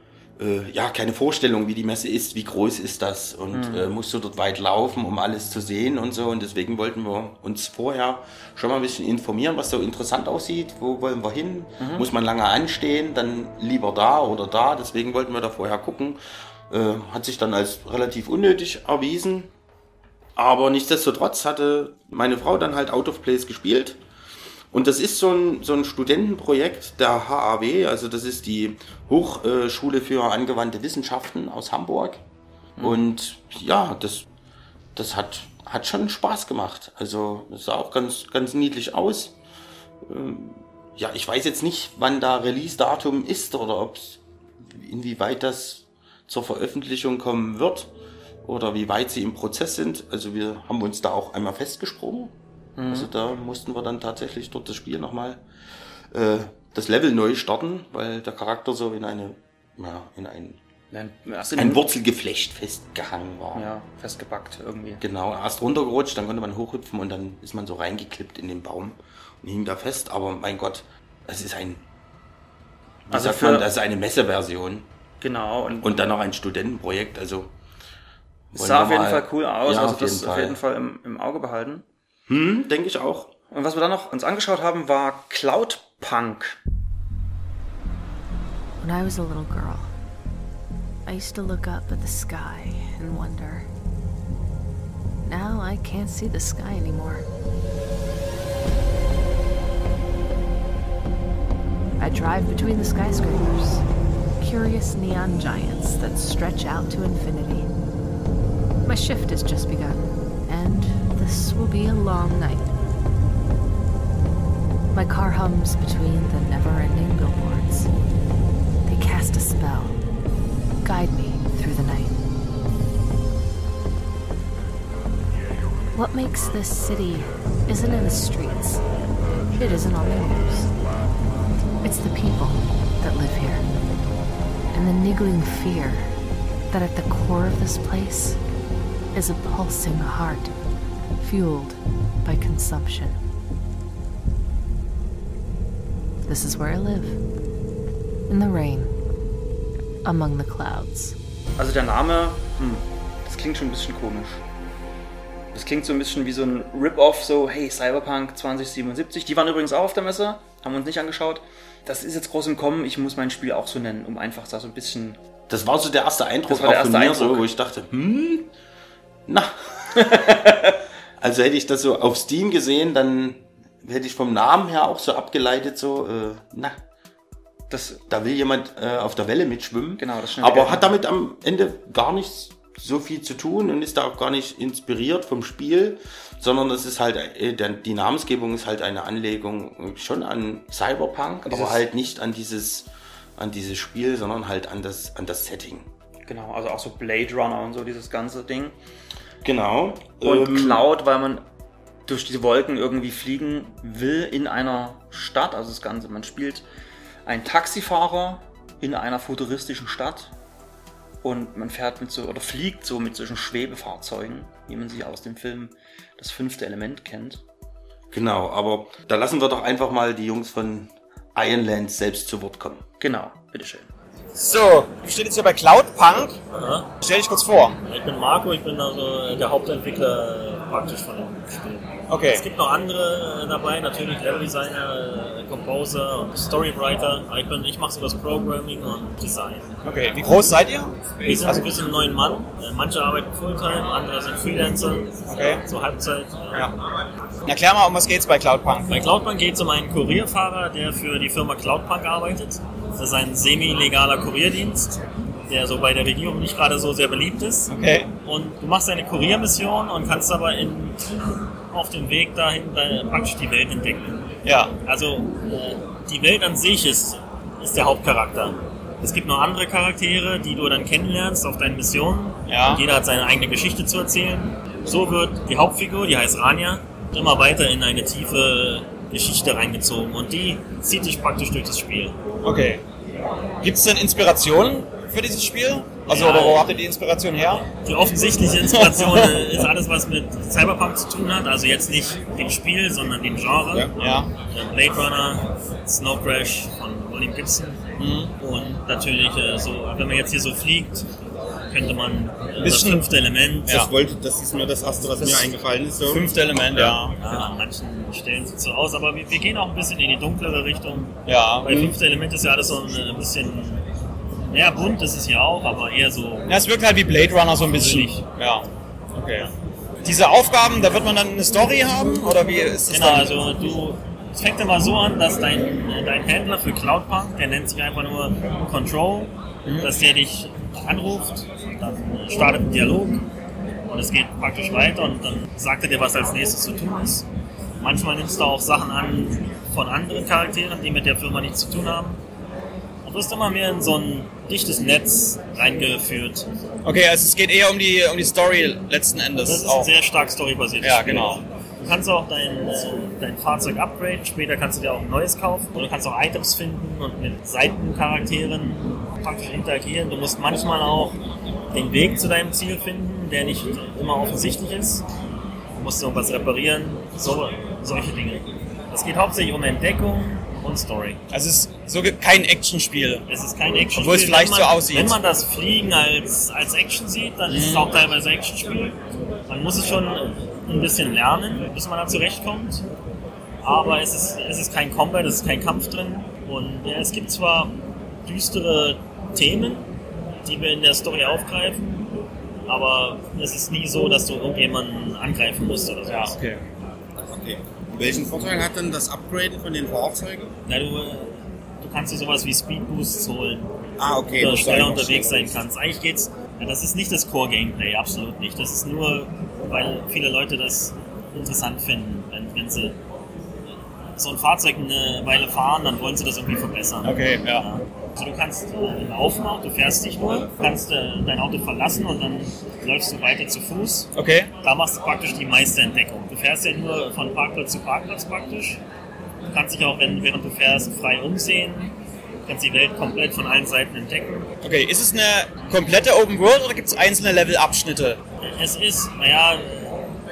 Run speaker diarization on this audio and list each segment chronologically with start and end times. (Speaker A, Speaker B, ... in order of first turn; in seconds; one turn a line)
Speaker A: 0.4-19.5
Speaker B: 3.5-3.9
Speaker B: 11.8-12.1
Speaker A: 20.4-24.0
Speaker A: 24.7-32.2
Speaker B: 32.8-33.1
Speaker A: 32.8-34.2
Speaker A: 34.9-39.4
Speaker A: 40.0-47.9
Speaker A: 48.4-52.3
Speaker B: 52.8-53.1
Speaker A: 52.9-55.4
Speaker A: 56.1-60.6
Speaker B: 60.9-61.9
Speaker A: 61.5-63.7
Speaker B: 63.5-65.0
Speaker A: 65.0-71.8
Speaker A: 73.1-74.9
Speaker B: 73.1-73.7
Speaker B: 75.2-76.0
Speaker A: 75.8-77.5
Speaker A: 78.5-80.6
Speaker B: 78.5-81.8
Speaker A: 82.3-83.3
Speaker B: 83.5-86.6
Speaker C: 88.8-89.9
Speaker C: 91.0-93.7
Speaker C: 95.2-97.3
Speaker C: 102.0-103.8
Speaker C: 104.4-107.7
Speaker C: 108.8-112.7
Speaker C: 114.9-117.9
Speaker C: 118.8-120.0
Speaker C: 120.8-122.2
Speaker C: 125.9-128.8
Speaker C: 129.5-130.7
Speaker C: 131.8-133.7
Speaker C: 134.7-136.1
Speaker C: 136.7-138.4
Speaker C: 139.1-140.5
Speaker C: 141.2-143.2
Speaker C: 146.2-147.2
Speaker C: 148.3-148.9
Speaker C: 150.0-151.2
Speaker B: 151.6-154.4
Speaker B: 155.5-165.2
Speaker A: 165.5-168.5
Speaker B: 166.5-167.4
Speaker A: 169.3-170.6
Speaker B: 169.9-170.7
Speaker A: 171.2-176.8
Speaker B: 177.7-178.0
Speaker A: 178.1-195.9
Speaker B: 180.0-181.0
Speaker B: 191.4-191.8
Speaker B: 196.3-198.7
Speaker A: 199.4-200.8
Speaker B: 200.2-201.4
Speaker B: 202.1-206.6
Speaker B: 207.2-210.3
Speaker B: 211.2-217.4
Speaker A: 218.1-222.8
Speaker B: 223.0-223.9
Speaker D: 224.3-226.4
Speaker E: 226.5-226.9
Speaker D: 227.0-227.8
Speaker E: 227.8-239.7
Speaker D: 232.1-232.4
Speaker D: 239.8-241.7
Speaker E: 241.2-246.7
Speaker D: 245.3-245.6
Speaker D: 247.4-249.0
Speaker E: 248.9-254.9
Speaker E: 255.5-257.7
Speaker D: 257.7-258.1
Speaker E: 258.2-261.0
Speaker E: 261.7-264.3
Speaker D: 264.4-264.7
Speaker E: 264.8-282.1
Speaker D: 272.5-272.8
Speaker D: 282.4-282.8
Speaker D: 283.6-287.7
Speaker E: 286.1-286.7
Speaker E: 287.8-297.8
Speaker D: 288.6-289.5
Speaker D: 294.0-294.3
Speaker D: 298.0-298.3
Speaker E: 298.4-301.0
Speaker E: 301.7-303.7
Speaker D: 302.6-303.1
Speaker F: 303.7-306.9
Speaker D: 305.1-307.5
Speaker E: 307.2-313.8
Speaker D: 311.2-311.9
Speaker E: 314.5-316.5
Speaker D: 316.5-318.6
Speaker E: 317.7-318.2
Speaker D: 319.1-319.5
Speaker D: 320.0-323.4
Speaker E: 322.9-333.2
Speaker D: 329.6-329.9
Speaker E: 333.9-337.2
Speaker E: 337.8-342.2
Speaker E: 343.0-346.5
Speaker D: 346.8-349.9
Speaker E: 349.4-361.2
Speaker D: 350.8-351.4
Speaker E: 361.7-365.0
Speaker E: 365.8-371.2
Speaker D: 371.3-373.2
Speaker E: 373.3-378.9
Speaker D: 373.9-375.2
Speaker D: 377.5-377.9
Speaker E: 379.5-382.8
Speaker E: 383.6-387.7
Speaker E: 388.2-389.9
Speaker E: 390.4-392.0
Speaker E: 392.7-396.4
Speaker D: 396.1-396.6
Speaker F: 397.3-400.5
Speaker E: 400.7-403.7
Speaker F: 404.0-405.6
Speaker E: 404.4-413.0
Speaker E: 414.2-424.1
Speaker D: 417.0-417.7
Speaker D: 424.1-424.5
Speaker E: 424.6-428.8
Speaker E: 429.5-434.5
Speaker D: 434.6-438.2
Speaker E: 438.6-440.0